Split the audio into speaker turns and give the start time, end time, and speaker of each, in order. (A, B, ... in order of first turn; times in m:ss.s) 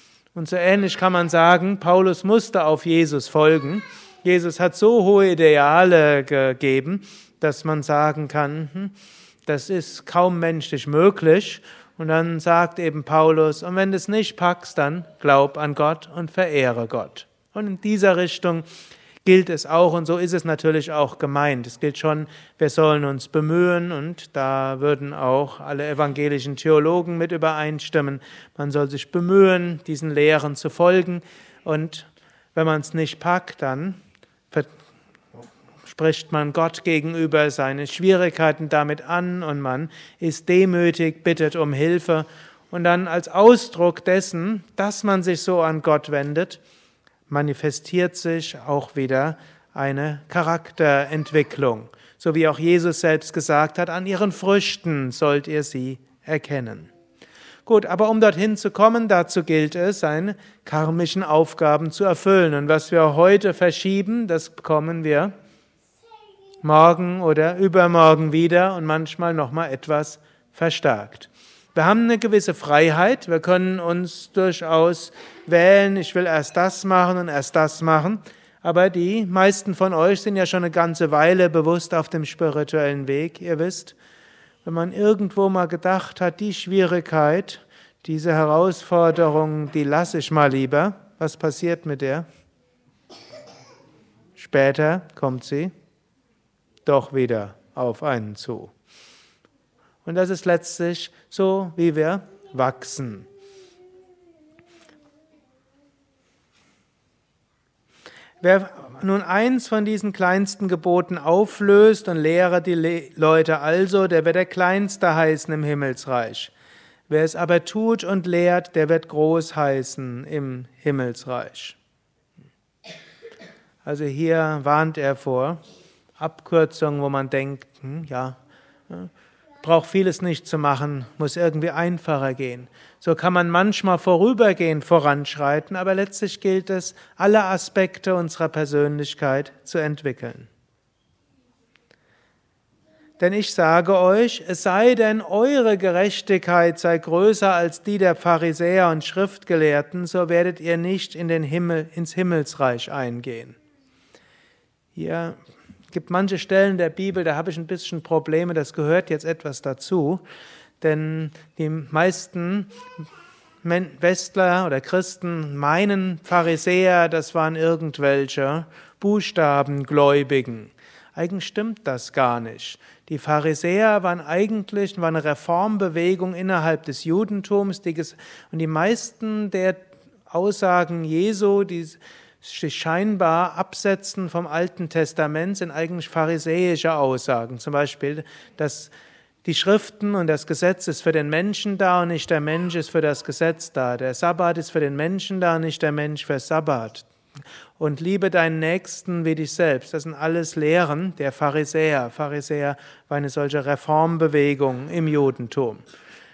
0:00.3-0:08.9 A
0:09.4-0:18.6 A
0:19.2-0:34.0 A
0:35.9-0:46.6 A
0:47.3-0:56.9 A
0:57.6-1:05.3 A
1:06.6-1:24.0 A
1:24.6-1:32.2 A
1:34.4-1:35.7 A
1:36.8-1:38.7 A
1:40.0-1:43.3 A
1:48.4-1:56.5 A
1:57.1-2:01.8 A
2:03.8-2:05.6 A
2:06.2-2:08.4 A
2:09.6-2:20.5 A
2:23.2-2:33.6 A
2:34.9-2:35.4 A
2:35.9-2:40.2 A
2:40.8-2:42.7 A
2:43.6-3:08.9 A
3:09.4-3:17.0 A
3:17.8-3:25.8 A